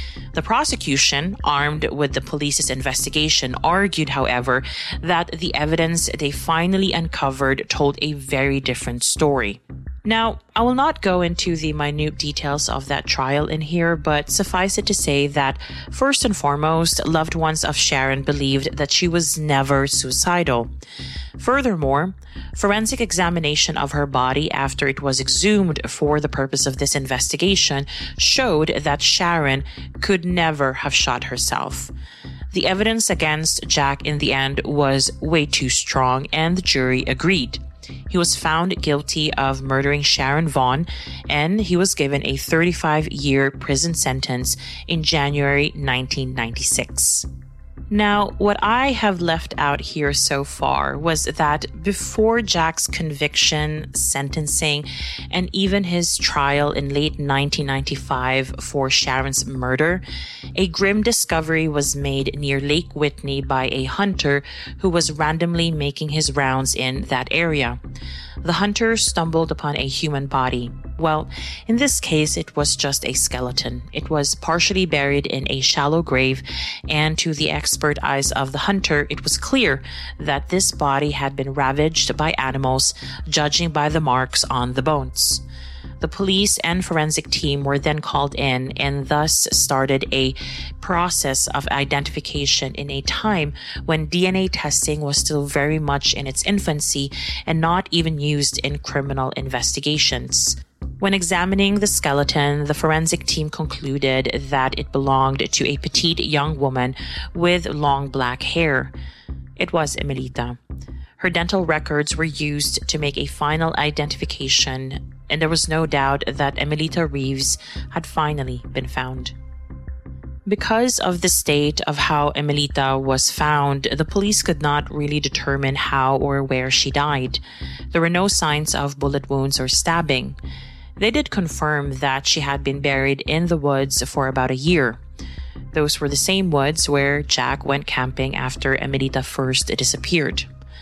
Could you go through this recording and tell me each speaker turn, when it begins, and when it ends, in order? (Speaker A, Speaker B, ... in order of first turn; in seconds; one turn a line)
Speaker A: 0.3-20.7
Speaker A: 21.4-31.9
Speaker A: 32.5-47.3
Speaker A: 47.9-60.0
Speaker A: 60.5-67.8
Speaker A: 68.4-85.4
Speaker A: 86.0-108.9
Speaker A: 109.6-110.6
Speaker A: 111.2-119.3
Speaker A: 120.5-127.4
Speaker A: 127.9-130.4
Speaker A: 131.0-135.0
Speaker A: 135.7-140.5